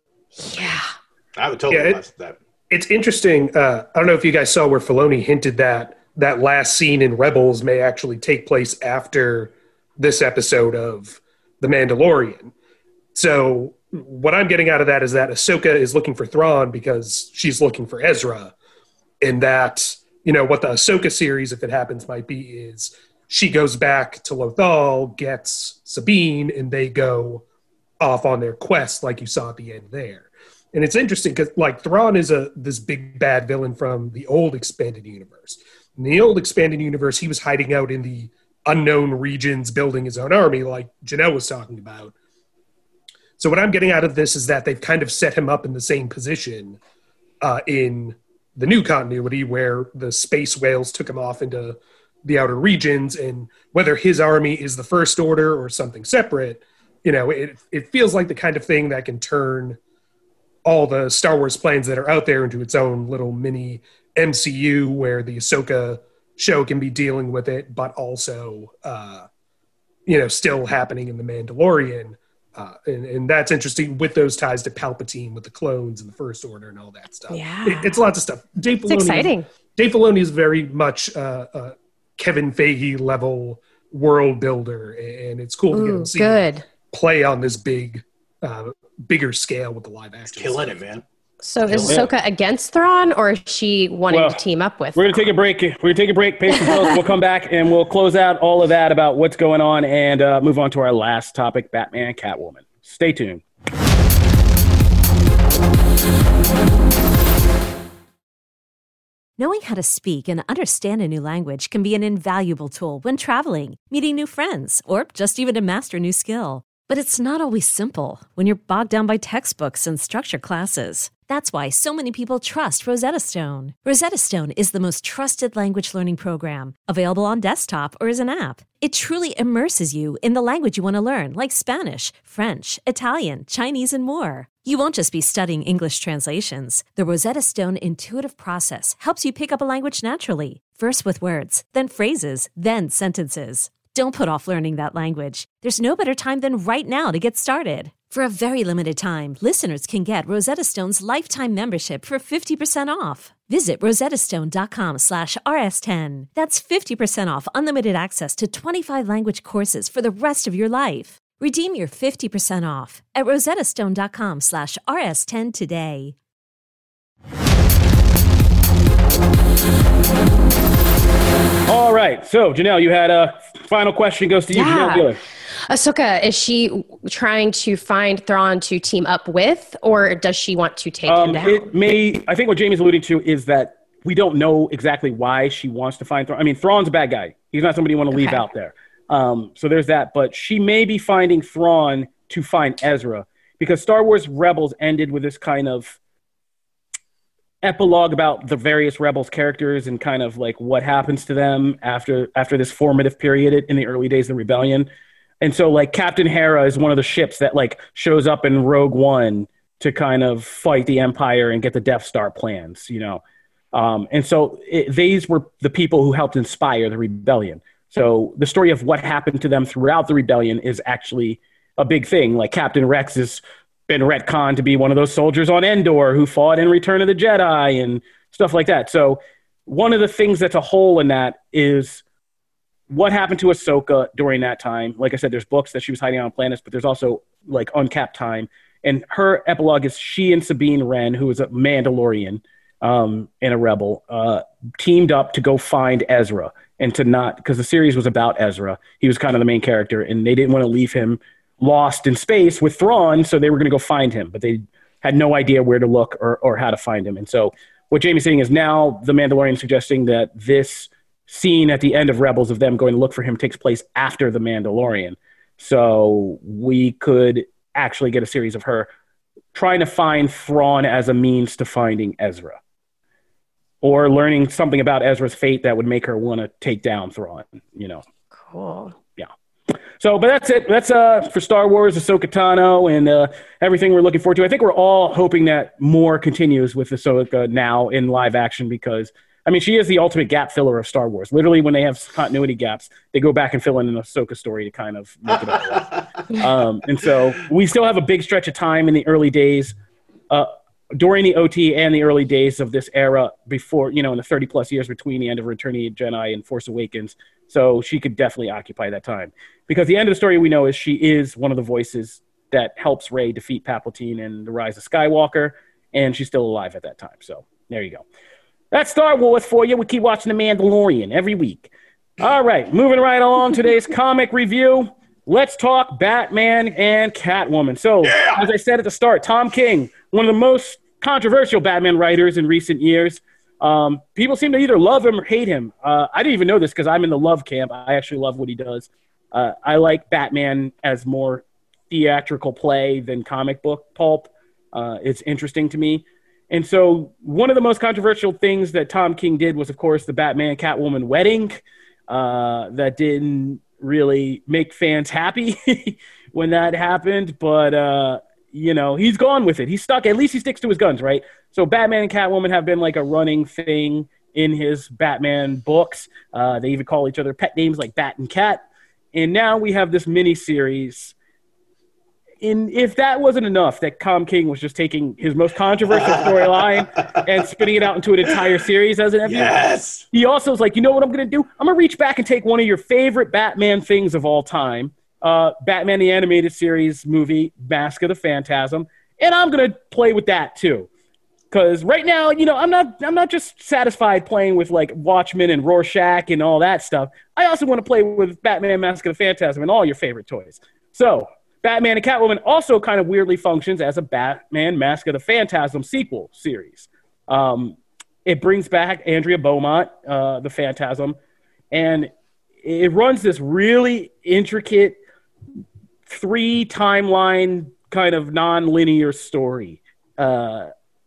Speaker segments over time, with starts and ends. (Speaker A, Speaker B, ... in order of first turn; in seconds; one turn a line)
Speaker A: 0.4-0.9
Speaker B: 1.4-2.4
Speaker C: 1.7-2.0
Speaker C: 2.7-12.5
Speaker C: 13.2-18.5
Speaker C: 19.2-27.4
Speaker C: 28.0-42.1
Speaker C: 43.4-46.8
Speaker C: 47.4-59.8
Speaker C: 60.6-69.3
Speaker C: 70.1-90.8
Speaker A: 77.3-78.0
Speaker A: 78.9-79.5
Speaker A: 85.7-86.6
Speaker B: 90.3-91.0
Speaker A: 91.4-95.3
Speaker B: 91.7-92.1
Speaker D: 91.8-92.1
Speaker D: 94.1-94.4
Speaker D: 95.0-103.4
Speaker E: 109.4-166.2
Speaker D: 171.7-175.2
Speaker A: 174.5-175.1
Speaker A: 175.7-181.7
Speaker D: 181.1-196.0
Speaker A: 188.1-188.4
Speaker D: 197.6-204.9
Speaker D: 205.4-213.2
Speaker D: 213.7-232.0
Speaker D: 232.9-268.9
Speaker D: 269.5-272.6
Speaker D: 273.8-278.0
Speaker A: 278.4-278.9
Speaker D: 280.0-299.7
Speaker D: 300.3-318.0
Speaker D: 318.7-368.6
Speaker B: 328.0-328.4
Speaker D: 369.1-371.1
Speaker D: 372.4-390.9
Speaker B: 375.9-376.7
Speaker B: 379.2-380.1
Speaker D: 391.5-411.2
Speaker D: 411.7-412.1
Speaker D: 412.6-415.0
Speaker D: 416.1-420.7